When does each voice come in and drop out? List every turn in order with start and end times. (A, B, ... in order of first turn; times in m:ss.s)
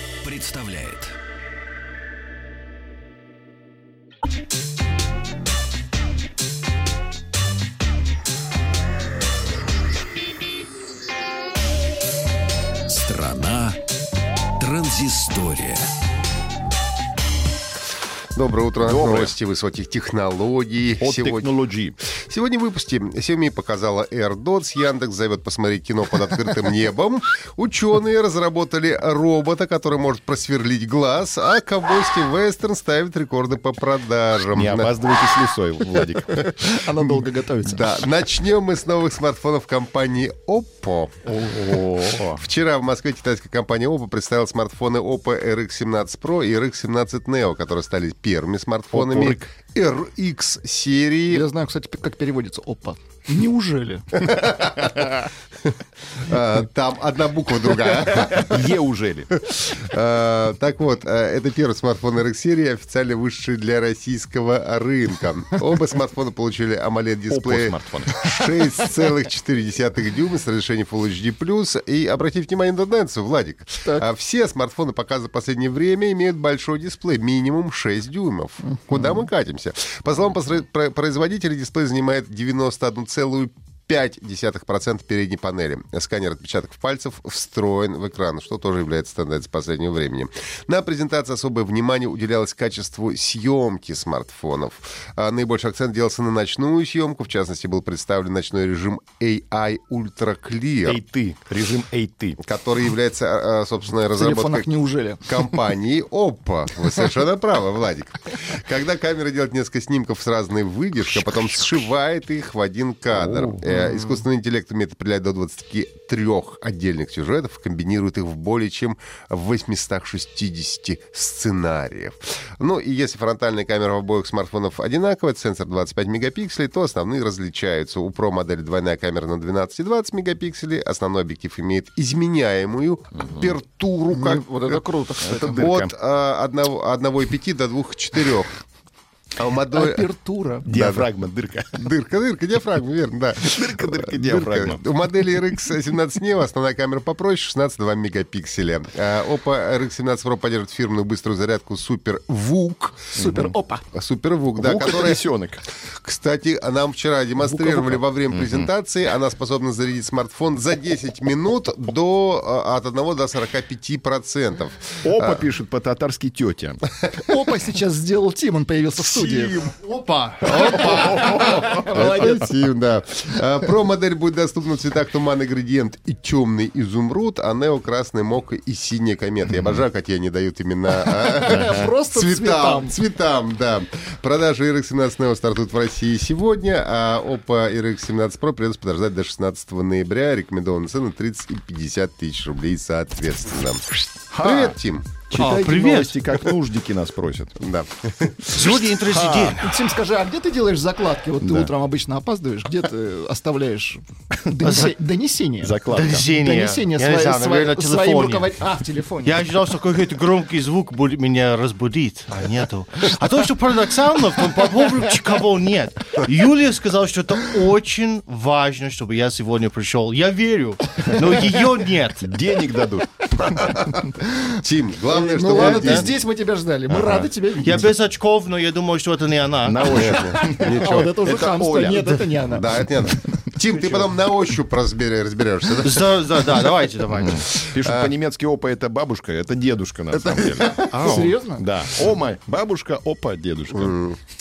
0:00.2-0:01.2 A
0:12.9-0:13.8 A
0:14.6-0:15.9 A
0:18.4-0:21.5 B
0:18.8-0:19.3 C
0:21.0-0:22.0 C
0:22.3-0:34.9 B
0:34.5-0:36.6 C
0:36.4-0:41.2 B
0:37.1-0:37.8 D
0:41.3-0:42.4 C
0:42.4-0:51.5 B
0:48.9-0:49.4 C
0:51.3-0:54.1 D
0:54.1-0:58.7 B
0:58.3-0:59.3 C
0:59.4-1:41.0 B
1:07.3-1:08.1 C
1:40.8-1:42.4 C
1:42.4-2:14.8 B
1:44.2-1:45.5 D
2:14.1-2:15.6 D
2:15.2-2:15.9 C
2:15.4-2:18.6 B
2:19.4-2:20.1 B
2:19.7-2:20.7 D
2:20.7-2:21.8 C
2:20.7-2:21.1 B
2:21.8-2:33.4 B
2:23.4-2:24.8 C
2:33.2-2:33.5 C
2:33.3-2:33.8 D
2:33.9-2:35.2 B
2:34.6-2:35.6 C
2:35.8-2:45.5 B
2:37.5-2:37.8 D
2:37.8-2:38.7 C
2:45.0-2:46.8 C
2:47.0-2:47.6 B
2:47.3-2:49.6 D
2:49.0-2:49.7 B
2:49.6-2:51.6 E
2:50.4-3:13.8 B
2:51.4-2:52.3 D
2:52.0-2:52.3 A
3:01.0-3:02.9 D
3:14.3-3:14.8 C
3:14.4-3:15.2 B
3:15.3-3:17.6 C
3:15.3-3:16.2 E
3:17.6-3:18.7 B
3:18.5-3:19.7 E
3:19.0-3:19.6 C
3:19.6-3:25.8 D
3:21.4-3:21.7 C
3:24.6-3:25.0 E
3:25.6-3:26.3 C
3:25.9-3:28.5 E
3:26.4-3:29.4 D
3:29.2-3:42.3 E
3:42.2-3:43.7 C
3:43.4-3:46.1 B
3:45.1-3:47.9 D
3:45.6-3:46.1 E
3:46.9-3:47.3 C
3:47.6-3:50.2 E
3:49.6-3:52.3 C
3:49.9-3:51.2 B
3:50.3-3:52.6 D
3:52.4-3:56.2 B
3:55.8-3:57.5 E
3:57.1-4:00.8 C
3:57.5-3:58.1 B
4:00.1-4:01.3 B
4:00.9-4:01.4 E
4:01.0-4:01.6 D
4:01.6-4:04.0 C
4:03.7-4:04.2 B